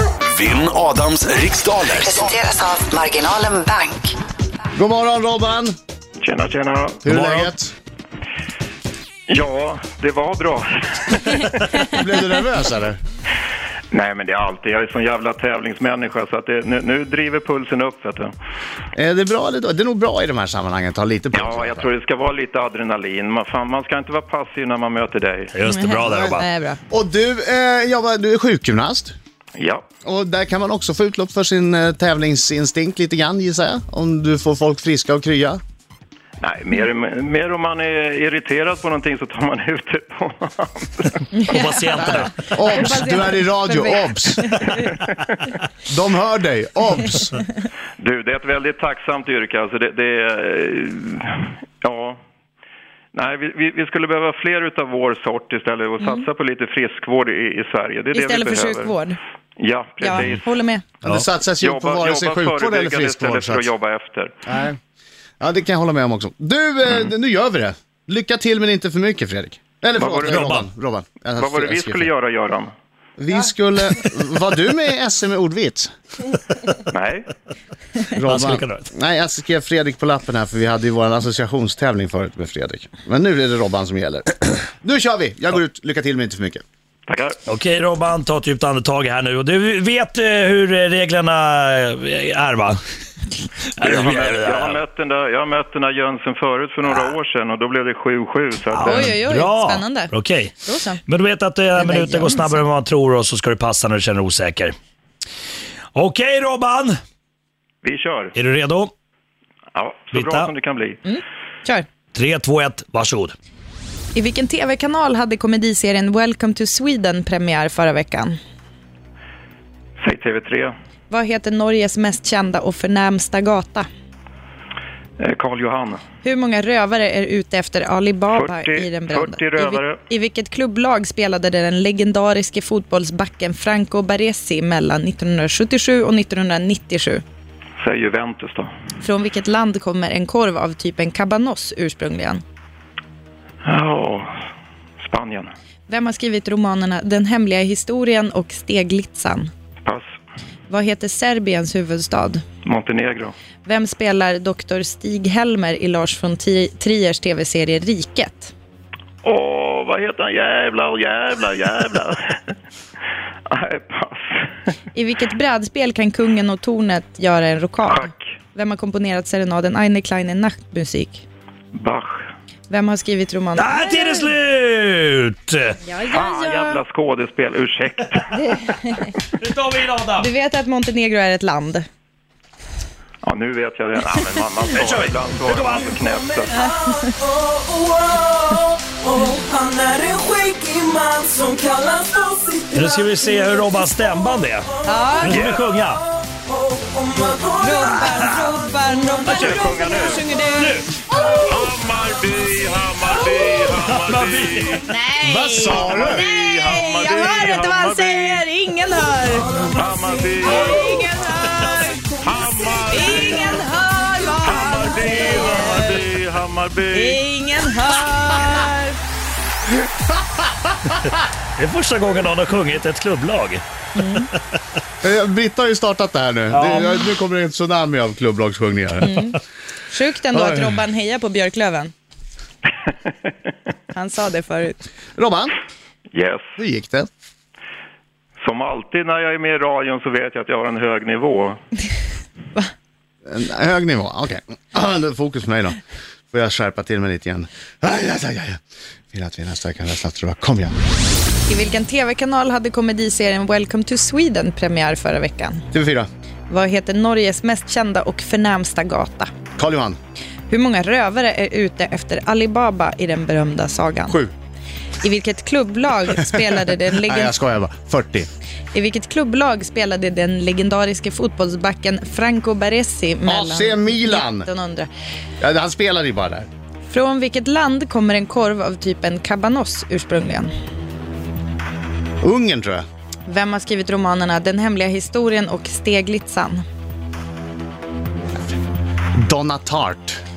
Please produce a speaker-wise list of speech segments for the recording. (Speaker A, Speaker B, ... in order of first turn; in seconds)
Speaker A: 0.3-2.4
Speaker B: 2.0-4.2
Speaker C: 4.8-5.8, 7.0-7.7, 11.8-13.0, 18.9-21.9, 26.1-26.4, 26.9-29.1, 30.0-35.6, 42.0-44.5, 45.9-47.4, 61.0-63.7, 64.5-64.8, 65.4-72.1, 73.2-75.9, 78.2-86.6, 205.2-206.2, 225.0-229.2, 230.3-230.8, 235.2-235.6, 236.6-237.1, 243.3-245.8, 246.3-250.8, 255.7-256.1, 259.6-260.0, 267.0-268.3, 273.3-274.5, 275.4-276.5, 282.2-282.8, 289.2-290.2
Speaker D: 6.2-7.0, 9.3-12.1, 13.9-18.3, 21.3-25.5, 29.6-29.8, 36.4-41.2, 45.0-45.3, 48.0-52.2, 53.1-58.9, 59.6-60.5, 61.6-64.3, 70.0-70.5, 71.4-72.7, 76.9-77.3, 87.1-87.4, 93.8-99.1, 107.8-108.3, 109.8-111.0, 120.0-120.7, 125.2-126.0, 128.3-130.0, 137.8-138.7, 143.7-144.3, 145.0-145.5, 152.6-153.3, 159.2-162.5, 163.5-164.5, 167.8-168.2, 171.7-172.2, 176.1-178.3, 183.2-186.5, 195.3-195.6, 199.3-200.2, 201.4-204.8, 205.7-208.4, 209.7-211.0, 212.2-213.6, 214.4-217.2, 236.1-236.4, 238.4-241.6
Speaker E: 7.1-7.5, 25.5-26.5, 41.5-42.4, 70.2-70.6, 78.2-78.9, 87.5-92.8, 93.8-94.8, 98.7-100.5, 101.1-104.8, 106.0-107.0, 108.3-108.9, 110.1-110.5, 112.1-113.3, 173.6-175.8, 179.3-180.3, 184.7-186.7, 192.7-196.0, 197.8-198.6, 200.5-200.9, 203.8-205.0, 221.6-223.6, 226.5-226.9
Speaker F: 25.7-26.8, 41.3-44.9, 56.0-56.3, 58.1-59.2, 60.0-60.9, 98.8-101.0, 101.8-102.6, 111.0-111.9, 114.2-118.4, 121.1-123.9, 126.2-137.2, 139.0-142.4, 145.9-149.5, 150.7-152.4, 153.7-158.5, 164.9-171.2, 172.7-174.3, 175.8-176.8, 178.3-179.1, 180.2-181.9, 186.5-187.2, 189.2-189.5, 190.3-190.6, 191.2-192.2, 194.8-195.4, 197.1-200.9, 204.9-209.7, 210.4-212.1, 212.9-216.0, 216.9-219.0, 224.0-224.3, 229.0-229.4, 229.9-231.9, 233.9-234.8, 251.5-255.7, 256.5-259.3, 260.5-264.2, 265.0-267.4, 268.7-274.9, 276.9-280.5, 283.3-286.6
Speaker G: 186.9-192.9, 196.7-197.7